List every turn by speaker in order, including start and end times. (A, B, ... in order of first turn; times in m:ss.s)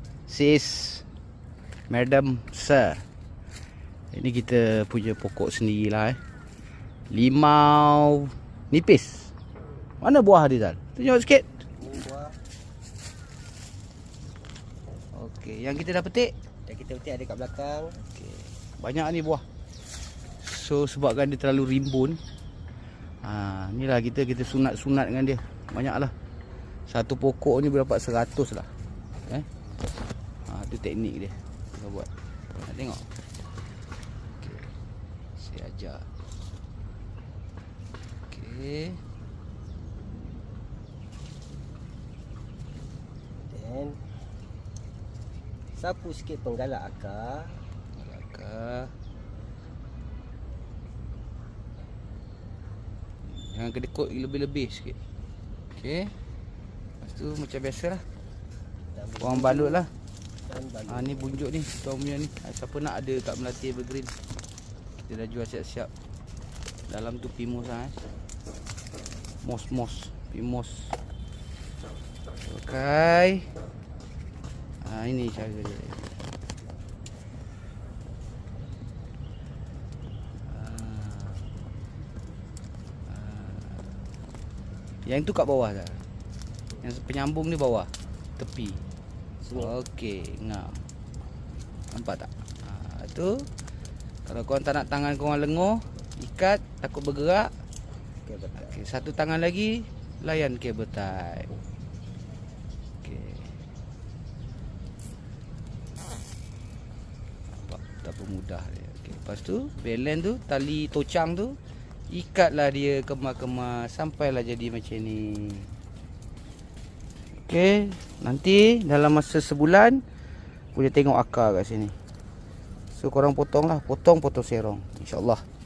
0:00.3-0:01.0 A
0:01.9-0:03.0 A
0:04.1-0:06.2 A
0:07.1-0:09.3 A
0:10.0-0:11.6 A
0:11.6-0:12.4 B
0:15.1-0:16.3 A
0:16.6-0:18.0 B
0:18.0-0:19.4 A
0:20.4-0:22.2 A
0:23.2-0:26.1 A
0:26.9-0:28.7 A
0:30.5-0:32.1 A
0:32.6-0:33.0 A
0:34.4-0:34.7 A
0:35.4-0:36.1 A
0:38.3-0:39.0 A
0:43.4-0:44.2 B
0:45.7-0:47.7 B
0:47.9-0:48.9 A
0:53.2-0:55.0 A
0:55.7-0:56.2 A
0:57.0-0:58.0 A
0:58.9-0:59.9 B
0:59.2-0:59.9 A
1:00.4-1:01.4 B
1:00.9-1:04.2 A
1:05.0-1:05.9 A
1:06.9-1:08.0 A
1:09.4-1:11.0 A
1:12.4-1:13.5 A
1:14.8-1:16.1 A
1:20.4-1:21.5 A
1:23.1-1:24.0 A
1:25.0-1:26.0 A
1:26.8-1:28.8 A
1:29.4-1:29.7 B
1:29.5-1:30.8 A
1:31.9-1:33.5 A
1:34.2-1:37.5 A
1:38.2-1:38.8 B
1:38.6-1:41.5 A
1:43.0-1:43.6 A
1:47.5-1:51.6 A
1:52.1-1:55.7 A
1:57.3-2:00.0 A
2:00.7-2:02.0 A
2:02.9-2:05.4 A